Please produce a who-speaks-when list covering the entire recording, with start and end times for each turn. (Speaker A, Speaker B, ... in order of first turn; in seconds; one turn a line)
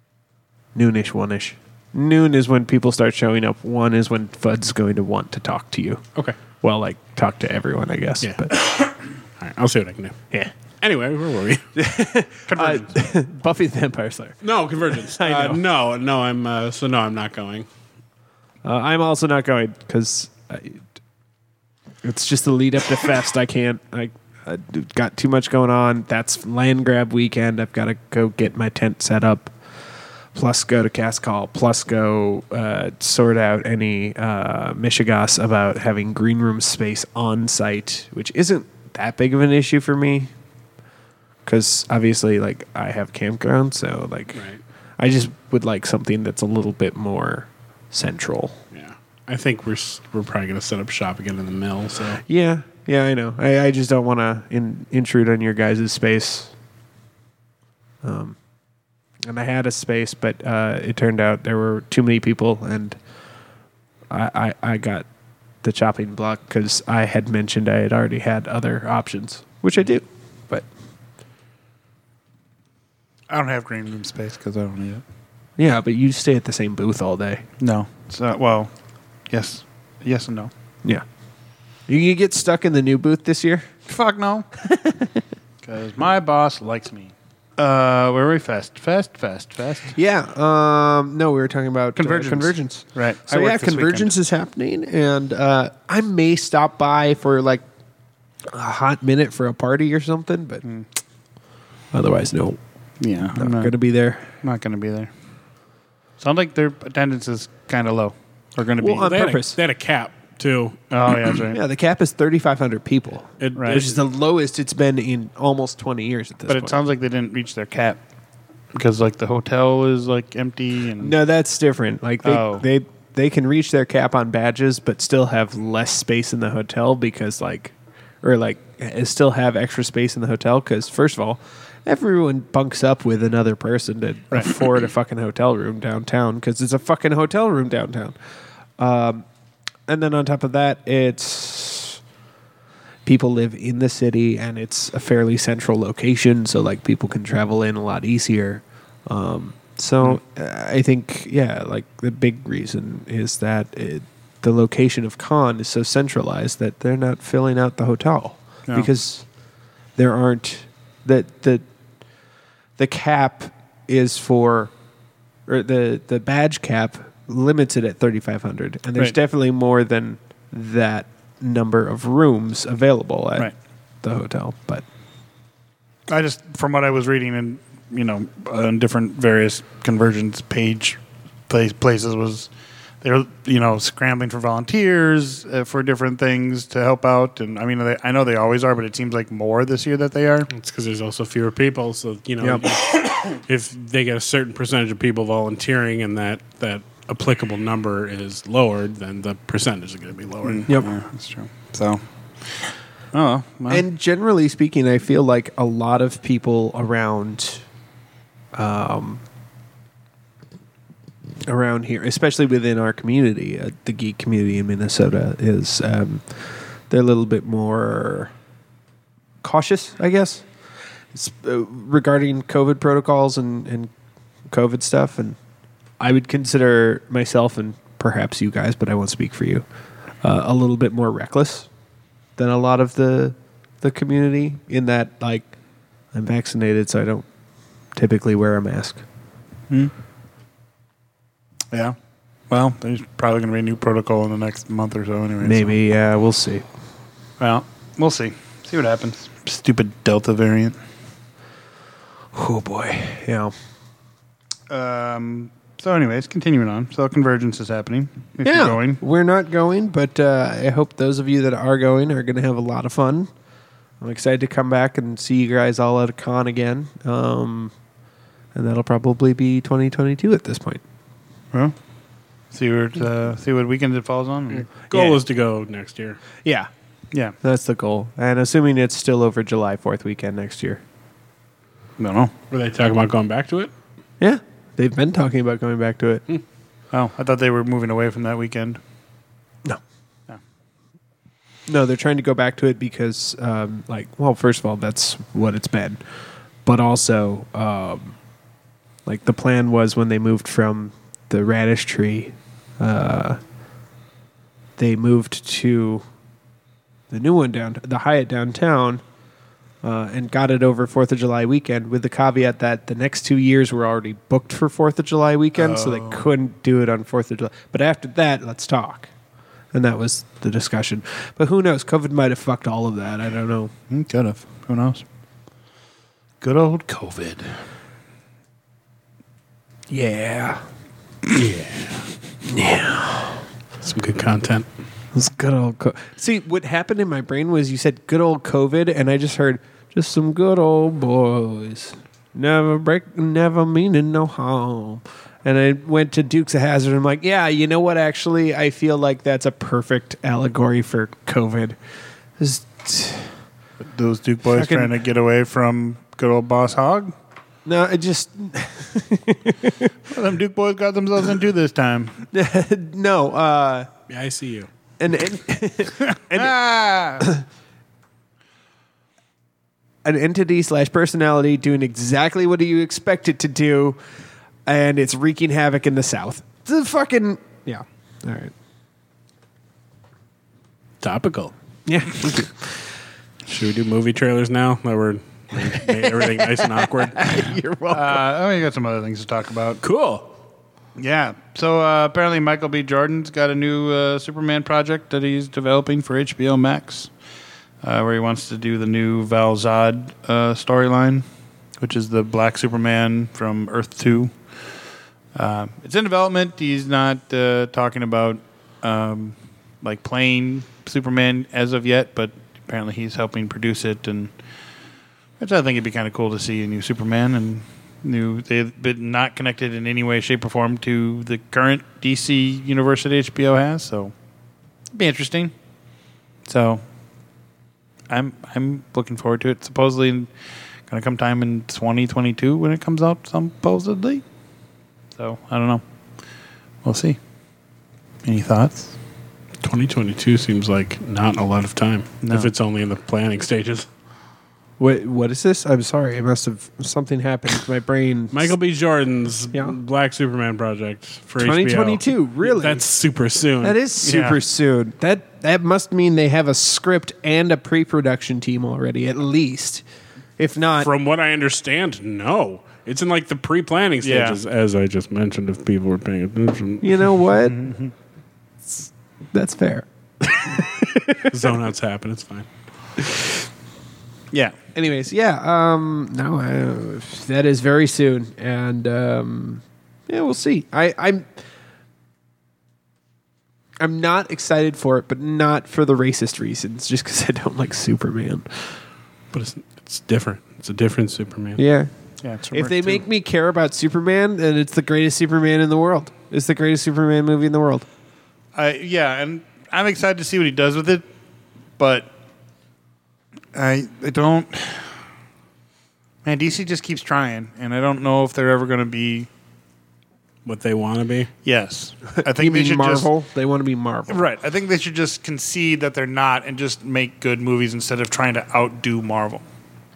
Speaker A: 0.7-6.0
Speaker A: 6.6-8.5
Speaker B: 8.2-10.2
Speaker B: 10.8-11.7
Speaker A: 11.7-14.4
Speaker C: 12.5-12.9
Speaker B: 14.4-17.7
Speaker A: 15.0-15.6
Speaker A: 18.6-20.8
Speaker A: 22.0-29.5
Speaker A: 30.3-40.3
Speaker A: 41.5-44.4
Speaker B: 44.3-44.6
Speaker A: 45.0-48.6
Speaker B: 48.7-52.2
Speaker A: 52.3-56.5
Speaker A: 58.0-58.4
Speaker A: 59.2-63.0
Speaker A: 64.1-65.0
Speaker A: 65.6-70.7
Speaker C: 73.3-75.0
Speaker A: 75.6-77.4
Speaker C: 77.6-78.7
Speaker C: 79.3-80.5
Speaker A: 81.9-83.7
Speaker C: 83.9-84.5
Speaker A: 84.6-85.2
Speaker C: 85.6-90.0
Speaker A: 89.9-97.6
Speaker C: 92.0-94.1
Speaker A: 98.5-100.6
Speaker A: 101.9-102.6
Speaker C: 103.0-103.7
Speaker A: 103.3-104.2
Speaker C: 104.4-105.1
Speaker C: 106.2-109.2
Speaker A: 108.8-109.6
Speaker B: 109.0-110.8
Speaker C: 110.9-111.6
Speaker A: 111.5-116.8
Speaker B: 113.4-114.0
Speaker C: 113.5-113.8
Speaker C: 116.5-118.0
Speaker C: 118.7-121.1
Speaker A: 121.0-138.1
Speaker C: 122.2-122.7
Speaker A: 138.8-139.2
Speaker A: 139.9-142.0
Speaker A: 143.0-159.2
Speaker A: 159.9-161.6
Speaker A: 162.8-164.7
Speaker A: 165.5-173.5
Speaker A: 174.0-174.8
Speaker C: 176.1-190.5
Speaker B: 190.5-200.7
Speaker C: 200.4-203.8
Speaker A: 203.7-207.6
Speaker A: 208.5-209.2
Speaker A: 211.5-218.3
Speaker A: 219.4-220.4
Speaker A: 221.1-223.9
Speaker A: 224.5-225.4
Speaker A: 226.0-229.6
Speaker A: 230.2-231.7
Speaker A: 232.4-235.5
Speaker A: 236.1-237.2
Speaker A: 237.9-239.0
Speaker C: 241.7-242.0
Speaker C: 242.5-245.8
Speaker A: 245.4-246.7
Speaker C: 247.4-250.8
Speaker A: 252.3-253.5
Speaker C: 254.7-259.0
Speaker A: 258.4-263.3
Speaker A: 264.0-267.7
Speaker A: 268.5-270.8
Speaker C: 272.5-274.7
Speaker B: 274.5-276.2
Speaker A: 277.4-280.8
Speaker C: 282.0-282.3
Speaker B: 282.5-283.7
Speaker A: 284.2-286.2
Speaker C: 286.9-288.8
Speaker A: 291.7-296.0
Speaker A: 296.6-298.1
Speaker A: 299.1-303.4
Speaker A: 304.8-306.0
Speaker A: 307.1-309.0
Speaker A: 309.8-319.1
Speaker C: 315.6-316.3
Speaker A: 319.7-323.7
Speaker C: 323.9-325.0
Speaker C: 326.4-327.6
Speaker A: 329.9-330.6
Speaker B: 331.3-332.1
Speaker A: 332.5-333.4
Speaker B: 333.8-334.6
Speaker A: 335.1-351.8
Speaker A: 352.4-353.4
Speaker C: 353.8-357.1
Speaker A: 354.5-354.9
Speaker A: 357.6-359.9
Speaker C: 360.1-362.2
Speaker A: 362.3-363.9
Speaker B: 364.1-364.7
Speaker A: 365.0-366.6
Speaker C: 366.1-367.3
Speaker A: 367.2-367.4
Speaker A: 370.0-374.0
Speaker A: 374.6-378.5
Speaker B: 381.0-381.5
Speaker A: 381.9-382.7
Speaker B: 383.5-387.5
Speaker A: 385.8-388.2
Speaker C: 387.9-389.8
Speaker B: 389.8-390.3
Speaker C: 390.9-397.1
Speaker C: 397.8-401.2
Speaker C: 401.8-404.4
Speaker C: 405.3-414.3
Speaker C: 415.4-424.1
Speaker C: 424.9-425.5
Speaker C: 426.4-426.8
Speaker C: 428.1-430.3
Speaker C: 430.9-434.2
Speaker C: 435.1-435.8
Speaker C: 436.8-437.2
Speaker C: 438.2-438.9
Speaker B: 439.6-443.9
Speaker C: 442.2-442.5
Speaker A: 444.8-448.5
Speaker B: 448.3-453.8
Speaker A: 451.4-452.8
Speaker A: 453.6-459.8
Speaker C: 454.0-454.4
Speaker A: 460.4-460.9
Speaker B: 460.8-467.2
Speaker C: 464.0-464.4
Speaker A: 466.8-467.7
Speaker C: 467.4-467.9
Speaker A: 468.7-471.5
Speaker B: 471.3-472.5
Speaker A: 474.7-481.3
Speaker A: 483.8-488.7
Speaker B: 489.3-491.6
Speaker A: 491.6-491.9
Speaker C: 492.2-493.0
Speaker A: 492.5-497.9
Speaker C: 498.5-501.1
Speaker C: 501.8-502.1
Speaker C: 503.5-505.0
Speaker C: 506.2-509.3
Speaker B: 510.4-511.3
Speaker C: 511.4-513.1
Speaker A: 512.1-514.2
Speaker C: 514.1-519.4